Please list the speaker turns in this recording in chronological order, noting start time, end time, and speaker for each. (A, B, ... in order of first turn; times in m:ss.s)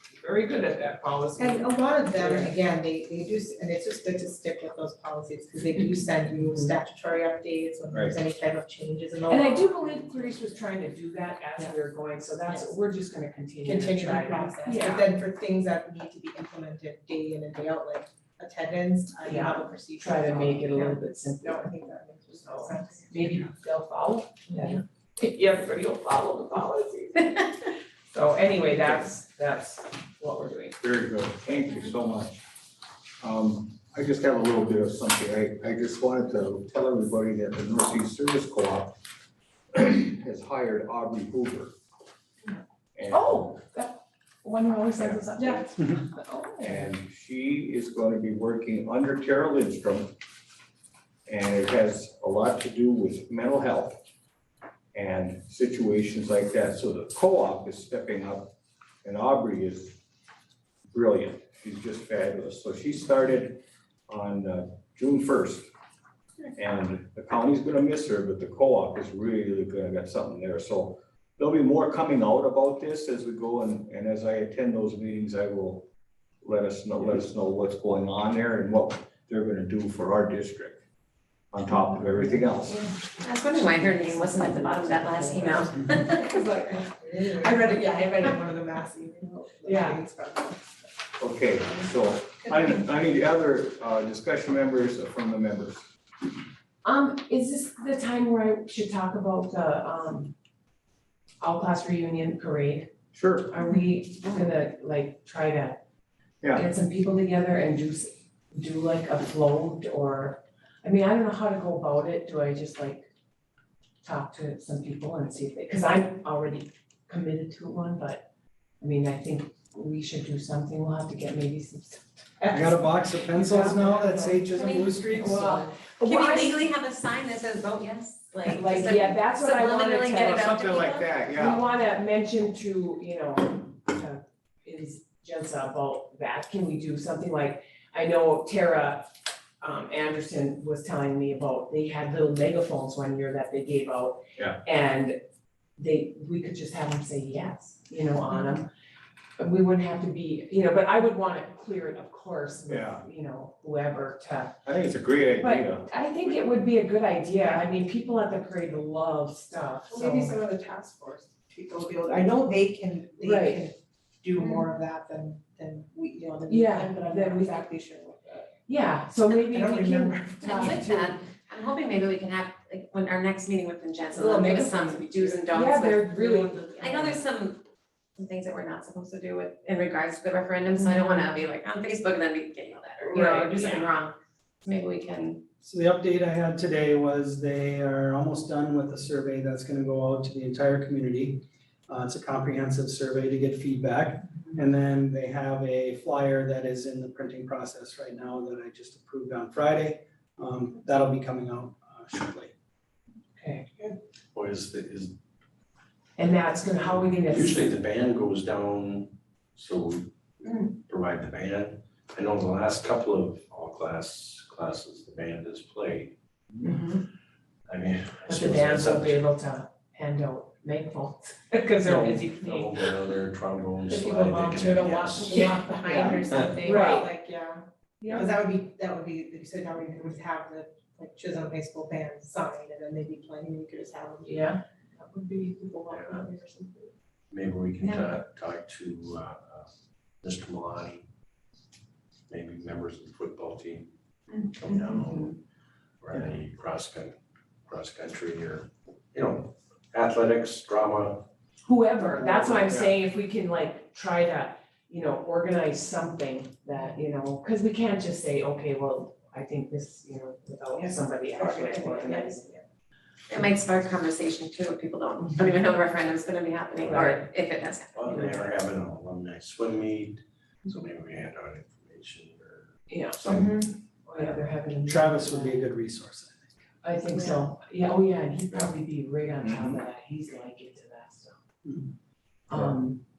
0:00.2-0:02.5 A
0:01.4-0:10.5 B
0:07.9-0:08.2 C
0:09.3-0:15.1 A
0:13.6-0:23.3 B
0:19.2-0:21.7 A
0:22.4-0:30.8 A
0:30.8-0:32.4 C
0:33.2-0:39.0 C
0:39.7-0:41.7 C
0:42.9-0:43.6 C
0:43.1-0:46.9 A
0:46.6-0:50.1 C
0:51.3-0:54.0 C
0:54.9-0:58.5 C
0:59.0-1:00.0 C
1:00.9-1:05.7 C
1:06.6-1:15.9 C
1:16.4-1:20.8 C
1:21.5-1:22.9 C
1:23.2-1:26.3 D
1:23.6-1:26.8 A
1:26.1-1:30.8 B
1:27.4-1:28.3 A
1:29.6-1:30.0 A
1:31.2-1:35.8 C
1:36.8-1:40.3 A
1:41.4-1:42.9 A
1:43.1-1:43.5 C
1:43.5-1:45.8 A
1:46.5-1:53.1 A
1:54.0-1:58.2 A
1:58.8-2:06.7 A
2:02.5-2:05.7 E
2:04.5-2:04.9 D
2:06.0-2:11.1 D
2:08.4-2:19.1 A
2:10.2-2:11.7 C
2:19.6-2:25.2 A
2:25.8-2:28.7 A
2:29.4-2:34.6 A
2:32.7-2:33.0 C
2:34.6-2:35.9 C
2:35.4-2:40.4 A
2:39.9-2:48.5 B
2:43.2-2:43.6 A
2:46.5-2:47.7 A
2:48.6-2:51.2 A
2:49.3-2:50.8 B
2:50.4-2:56.1 D
2:54.1-2:55.4 B
2:54.2-2:54.9 A
2:55.5-2:57.2 A
2:56.1-2:57.1 B
2:56.8-2:57.6 D
2:58.2-3:05.4 D
3:03.0-3:03.9 A
3:05.6-3:22.5 E
3:23.3-3:23.7 A
3:24.3-3:25.1 F
3:26.2-3:27.8 A
3:27.2-3:30.1 F
3:30.8-3:36.1 F
3:36.6-3:37.0 A
3:37.7-3:39.2 F
3:38.3-3:42.9 A
3:41.8-3:46.5 F
3:43.9-3:56.9 B
3:45.3-3:45.6 A
3:46.6-3:47.1 A
3:48.0-3:48.3 A
3:54.2-3:54.6 A
3:55.9-3:56.3 F
3:57.3-3:59.7 F
3:57.8-3:58.1 D
4:00.2-4:01.0 F
4:02.3-4:05.3 F
4:06.0-4:07.1 F
4:07.7-4:11.3 F
4:11.6-4:22.4 A
4:12.1-4:13.0 C
4:20.7-4:22.6 B
4:23.3-4:28.5 D
4:26.8-4:27.3 A
4:27.9-4:33.6 F
4:32.9-4:35.6 A
4:34.8-4:36.5 E
4:36.8-4:41.3 A
4:39.4-4:39.8 C
4:42.5-4:43.0 A